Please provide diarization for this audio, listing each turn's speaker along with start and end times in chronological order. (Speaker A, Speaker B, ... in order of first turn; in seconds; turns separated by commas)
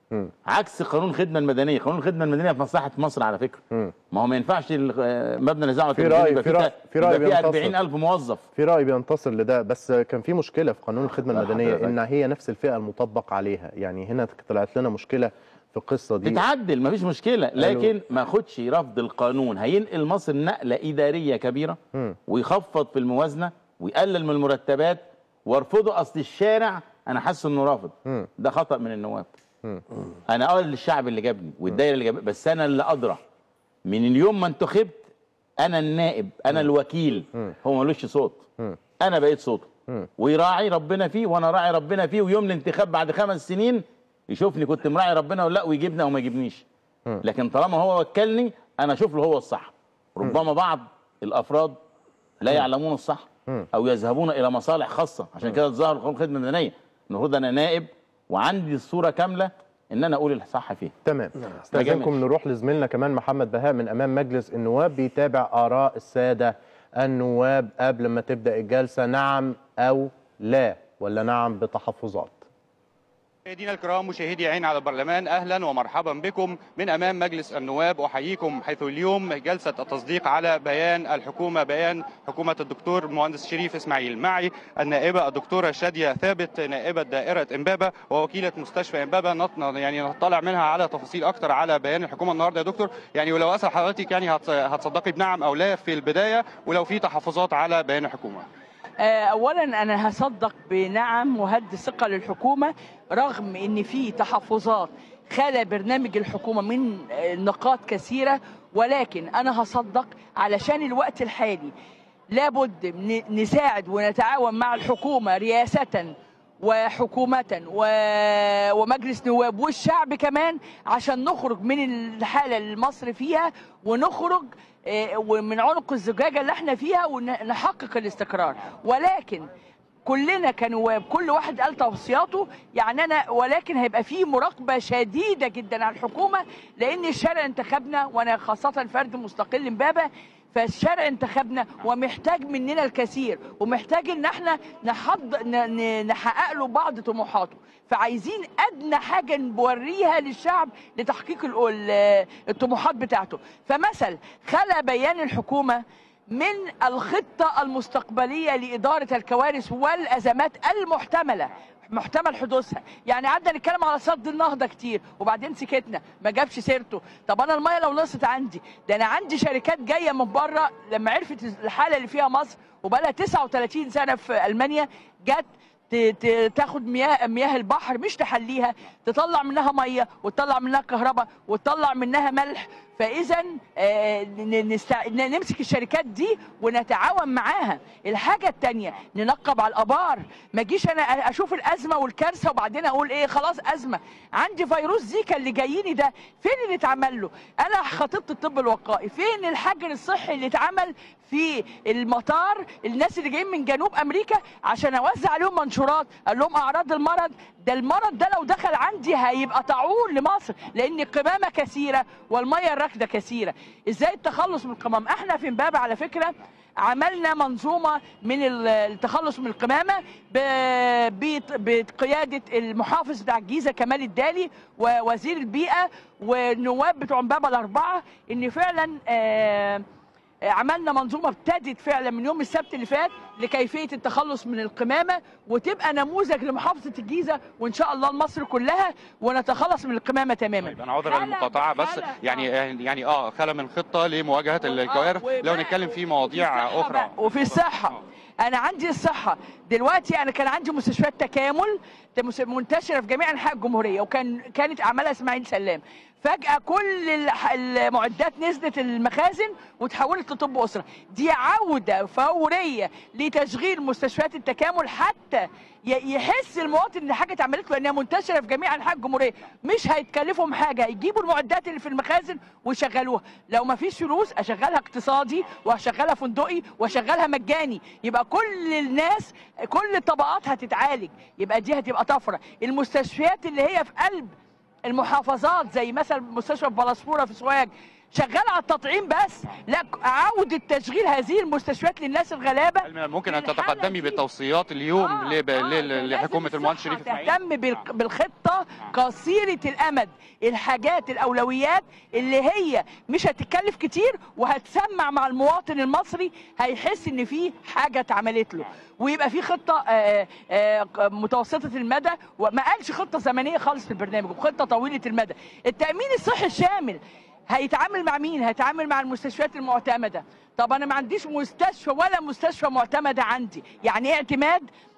Speaker A: 0.5-8.4, Speaker B: 5.9-7.8, Speaker B: 8.6-16.4, Speaker A: 11.3-11.9, Speaker A: 16.2-29.3, Speaker B: 17.6-17.9, Speaker A: 30.3-33.2, Speaker A: 33.9-35.0, Speaker A: 35.6-38.4, Speaker A: 39.0-39.7, Speaker A: 40.2-46.6, Speaker A: 47.2-51.8, Speaker A: 52.4-60.9, Speaker B: 61.0-72.4, Speaker A: 61.7-62.1, Speaker C: 73.5-98.5, Speaker D: 99.0-111.7, Speaker D: 112.3-129.5, Speaker D: 130.1-229.8, Speaker D: 230.5-242.5, Speaker C: 240.7-247.6, Speaker D: 244.6-284.3, Speaker D: 284.9-294.2, Speaker C: 292.9-297.3, Speaker D: 295.0-317.0, Speaker D: 317.5-324.7